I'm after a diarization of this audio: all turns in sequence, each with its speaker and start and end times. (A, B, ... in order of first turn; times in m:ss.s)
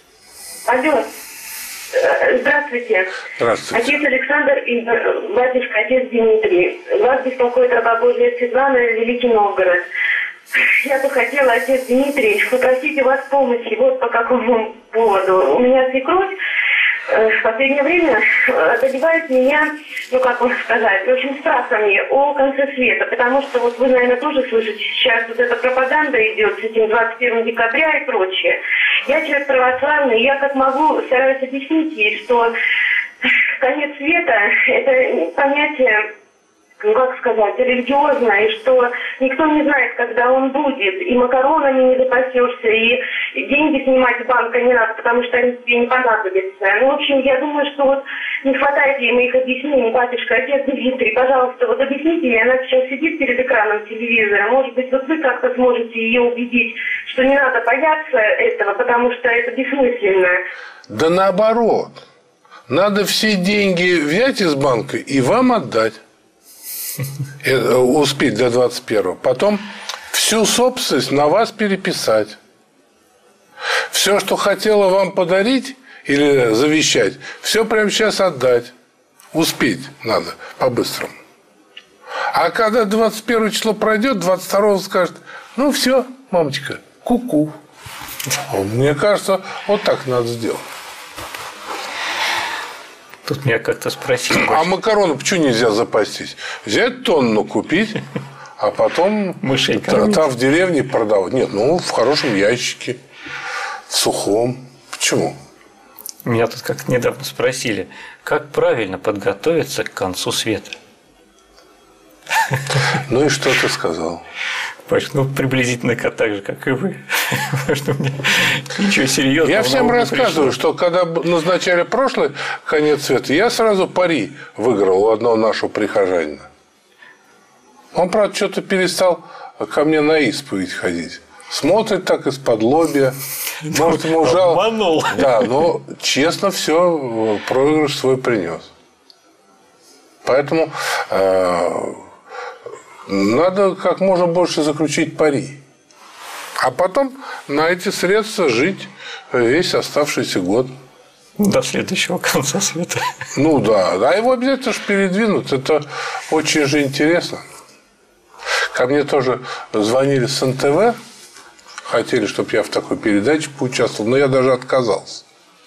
0:00.7-0:01.1 A
0:01.9-0:03.1 A
0:03.4-0:04.0 B
0:03.7-0:09.8 A
0:10.6-0:16.4 A
0:17.1-0:32.5 A
0:33.2-0:36.1 A
0:36.8-1:00.4 A
1:00.9-1:02.0 B
1:02.7-1:06.0 B
1:07.4-1:12.4 B
1:13.9-1:18.7 B
1:19.3-1:21.2 B
1:22.3-1:27.6 B
1:28.5-1:30.7 B
1:33.3-1:34.7 C
1:34.3-1:38.0 B
1:38.6-1:43.0 B
1:39.4-1:40.3 C
1:43.9-1:45.4 B
1:46.2-1:50.8 C
1:52.9-1:54.2 B
1:54.9-2:00.6 C
1:59.4-2:06.5 B
2:07.9-2:13.2 B
2:13.6-2:15.6 C
2:13.7-2:18.7 B
2:20.2-2:22.0 B
2:23.1-2:25.6 B
2:26.6-2:30.7 B
2:31.4-2:33.0 C
2:33.3-2:37.5 B
2:38.7-2:41.0 B
2:41.9-2:45.2 B